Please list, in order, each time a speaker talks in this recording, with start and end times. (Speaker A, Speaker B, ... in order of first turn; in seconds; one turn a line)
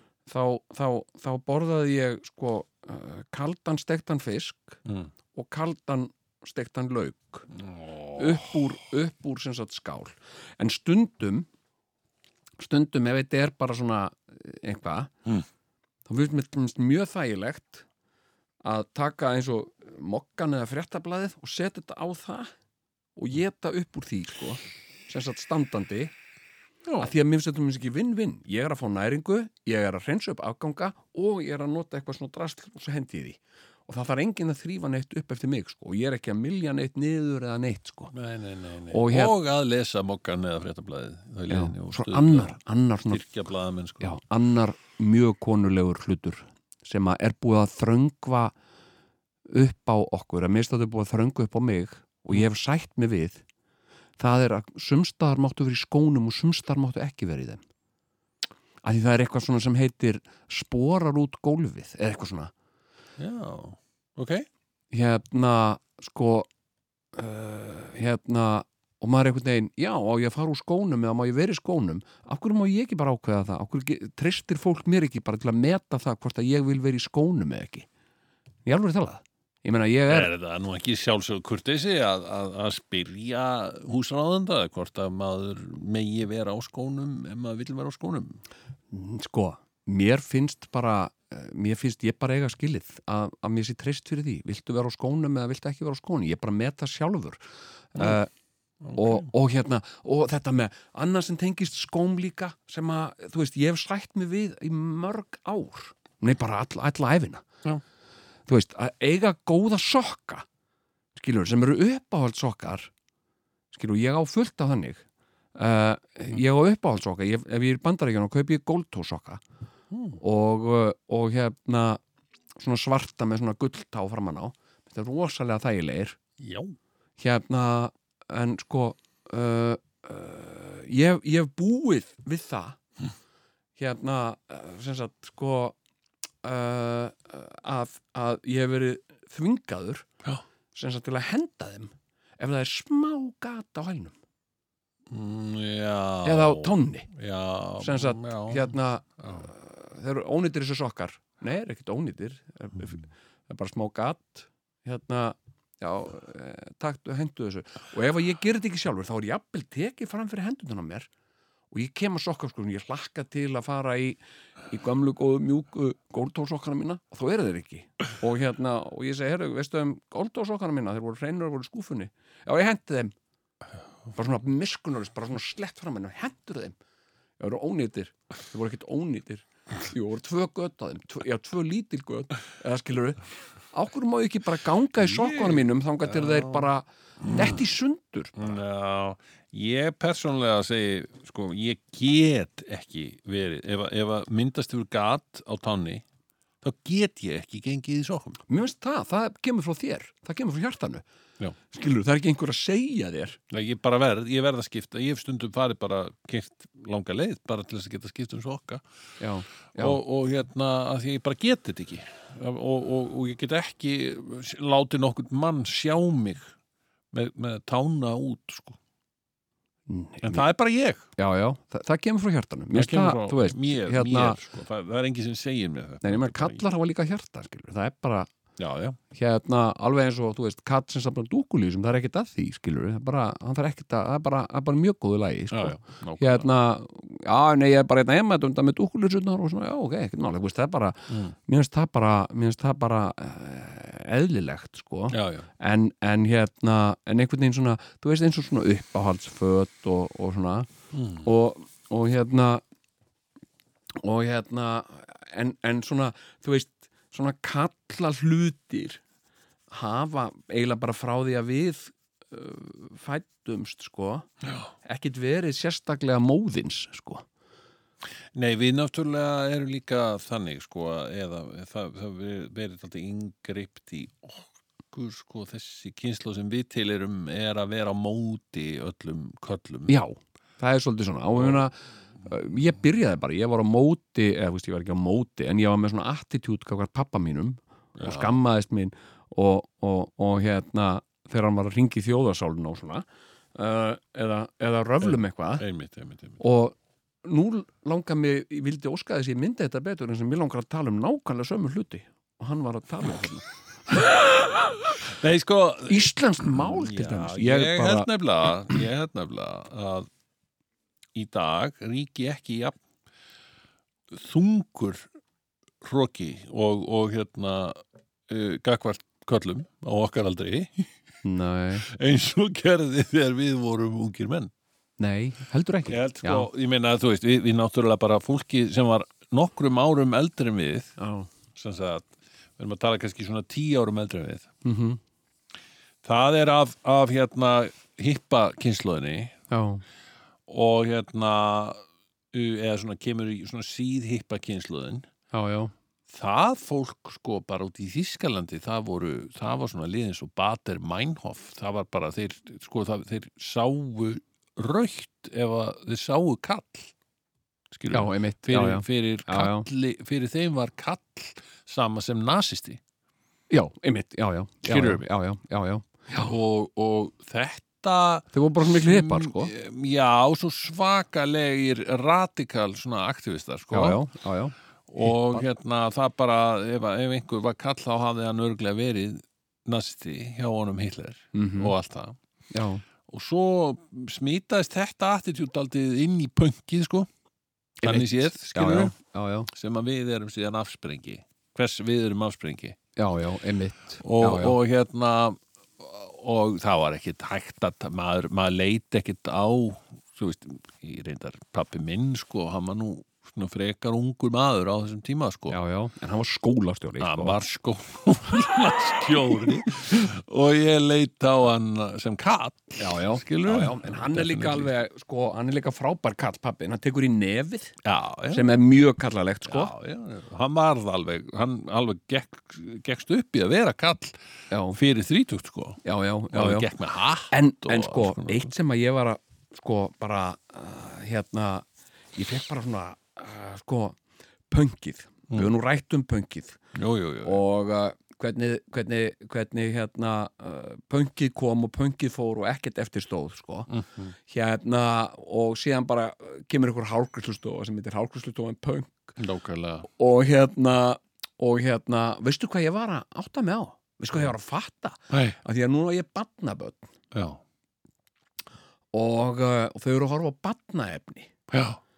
Speaker A: 0.3-4.8
Speaker A: 5.3-7.5
Speaker B: 7.5-8.6
Speaker A: 8.1-11.5
Speaker A: 12.6-15.1
Speaker A: 16.1-17.8
Speaker A: 18.6-22.5
Speaker A: 23.1-26.1
Speaker A: 27.0-38.1
Speaker B: 38.1-42.6
Speaker A: 38.9-39.3
Speaker A: 41.5-43.2
Speaker B: 43.1-44.2
Speaker A: 44.0-48.5
Speaker A: 49.5-53.4
Speaker A: 54.2-57.6
Speaker A: 58.8-62.5
Speaker B: 63.2-64.5
Speaker A: 64.9-66.5
Speaker A: 67.1-77.9
Speaker A: 78.7-80.3
Speaker B: 80.1-88.4
Speaker A: 88.9-97.4
Speaker A: 97.9-98.3
Speaker B: 98.8-99.2
Speaker A: 98.9-107.5
Speaker A: 108.5-110.4
Speaker A: 111.1-112.9
Speaker A: 113.7-115.0
Speaker A: 115.5-119.4
Speaker B: 119.9-120.2
Speaker A: 120.2-122.0
Speaker A: 122.5-126.2
Speaker B: 126.4-126.8
Speaker A: 127.2-132.8
Speaker A: 133.8-135.8
Speaker A: 136.4-140.1
Speaker A: 140.7-144.2
Speaker B: 145.1-149.5
Speaker A: 146.2-147.1
Speaker A: 147.8-161.1
Speaker A: 161.7-173.1
Speaker A: 174.1-176.8
Speaker A: 177.4-188.6
Speaker B: 185.0-186.7
Speaker B: 187.3-187.6
Speaker B: 188.3-196.0
Speaker B: 196.6-198.4
Speaker A: 198.5-201.0
Speaker A: 201.7-203.4
Speaker B: 203.5-208.8
Speaker A: 209.2-210.0
Speaker B: 209.8-216.5
Speaker B: 217.1-218.8
Speaker A: 219.9-220.4
Speaker B: 220.2-221.1
Speaker A: 221.2-224.4
Speaker B: 222.7-226.6
Speaker A: 226.0-228.3
Speaker B: 228.6-229.0
Speaker A: 229.1-250.7
Speaker B: 235.5-236.5
Speaker B: 241.1-241.3
Speaker B: 245.1-245.5
Speaker B: 250.9-251.3
Speaker A: 251.2-252.6
Speaker A: 254.0-259.0
Speaker A: 259.7-264.3
Speaker A: 264.8-267.2
Speaker B: 268.3-279.9
Speaker A: 279.9-295.6
Speaker B: 281.4-281.6
Speaker B: 288.0-288.3
Speaker B: 295.0-296.4
Speaker A: 296.4-304.8
Speaker B: 305.0-310.1
Speaker A: 305.9-308.1
Speaker B: 311.1-312.8
Speaker B: 314.1-315.1
Speaker B: 315.8-320.9
Speaker A: 321.2-321.9
Speaker B: 321.8-324.5
Speaker A: 325.0-326.5
Speaker B: 325.9-330.9
Speaker A: 331.0-331.3
Speaker B: 331.5-334.5
Speaker A: 334.6-335.0
Speaker B: 336.0-339.4
Speaker A: 339.5-339.8
Speaker B: 340.5-345.1
Speaker A: 345.3-345.7
Speaker B: 346.1-356.9
Speaker B: 357.7-362.8
Speaker A: 357.9-359.6
Speaker A: 363.5-366.3
Speaker B: 364.6-365.0
Speaker B: 366.2-374.0
Speaker A: 368.3-369.5
Speaker A: 373.7-375.4
Speaker B: 374.9-382.2
Speaker A: 381.3-381.7
Speaker A: 382.5-382.8
Speaker B: 383.1-387.1
Speaker A: 387.8-389.5
Speaker B: 387.8-388.9
Speaker B: 389.5-392.8
Speaker A: 392.9-394.6
Speaker B: 394.0-405.6
Speaker A: 405.5-407.4
Speaker B: 407.0-414.7
Speaker A: 412.8-417.8
Speaker B: 417.8-418.5
Speaker A: 418.3-419.7
Speaker B: 419.4-424.2
Speaker A: 424.5-424.8
Speaker B: 424.7-428.5
Speaker A: 425.8-426.7
Speaker A: 427.3-434.0
Speaker A: 434.5-436.6
Speaker B: 436.7-437.4
Speaker A: 437.2-443.7
Speaker B: 443.7-444.1
Speaker A: 444.2-449.1
Speaker B: 449.2-449.9
Speaker A: 449.9-456.9
Speaker B: 455.1-455.4
Speaker B: 457.1-457.4
Speaker A: 458.9-461.3
Speaker B: 461.5-461.8